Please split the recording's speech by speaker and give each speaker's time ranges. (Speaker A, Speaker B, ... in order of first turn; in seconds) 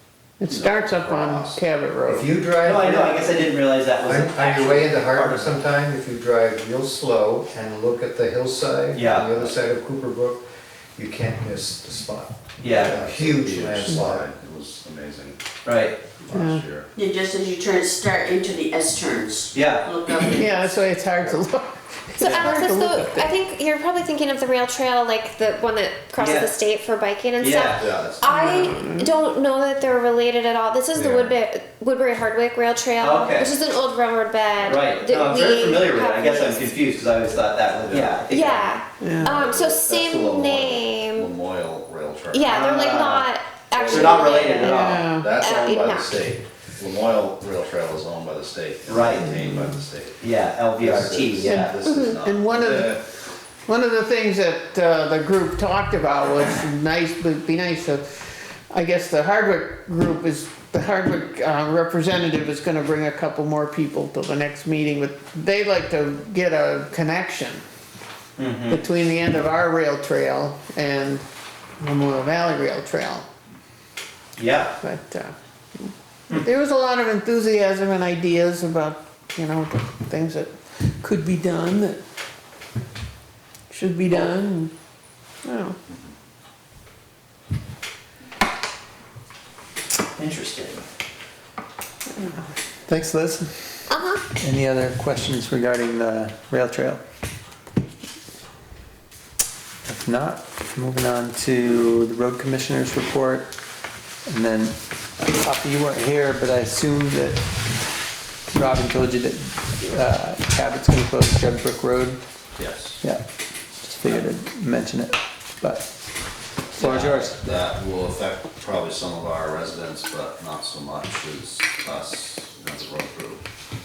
Speaker A: 0.4-2.3, 16.3-16.6, 20.4-23.3, 28.3-29.1, 39.0-39.4, 44.6-45.3, 51.4-53.0, 53.7-67.6, 68.7-71.2, 71.8-73.2, 74.8-82.0, 83.7-84.7, 85.4-85.8
Speaker B: 0.5-1.6, 12.7-15.4, 16.2-16.9, 27.8-28.5, 37.8-38.3, 39.2-42.5, 43.8-44.2, 45.1-53.0, 112.6-113.0, 116.8-123.4
Speaker C: 2.1-3.2, 4.0-10.4, 11.0-14.3, 30.9-31.4
Speaker D: 2.6-5.5, 8.9-9.5, 12.6-13.0, 15.7-16.0, 19.5-20.5, 22.2-22.5, 26.2-26.5, 27.4-27.8, 33.0-33.5, 34.6-38.7, 42.5-43.3, 43.9-45.1, 48.9-49.4, 50.2-51.8, 68.4-68.8, 74.4-74.7, 90.2-90.8
Speaker E: 16.9-20.5
Speaker F: 22.2-36.7, 38.3-41.4, 42.3-44.8, 45.3-46.2, 93.9-94.2
Speaker G: 92.9-93.5, 94.4-97.0, 99.8-103.5, 104.3-107.4, 108.5-112.2, 113.8-115.9, 116.7-117.4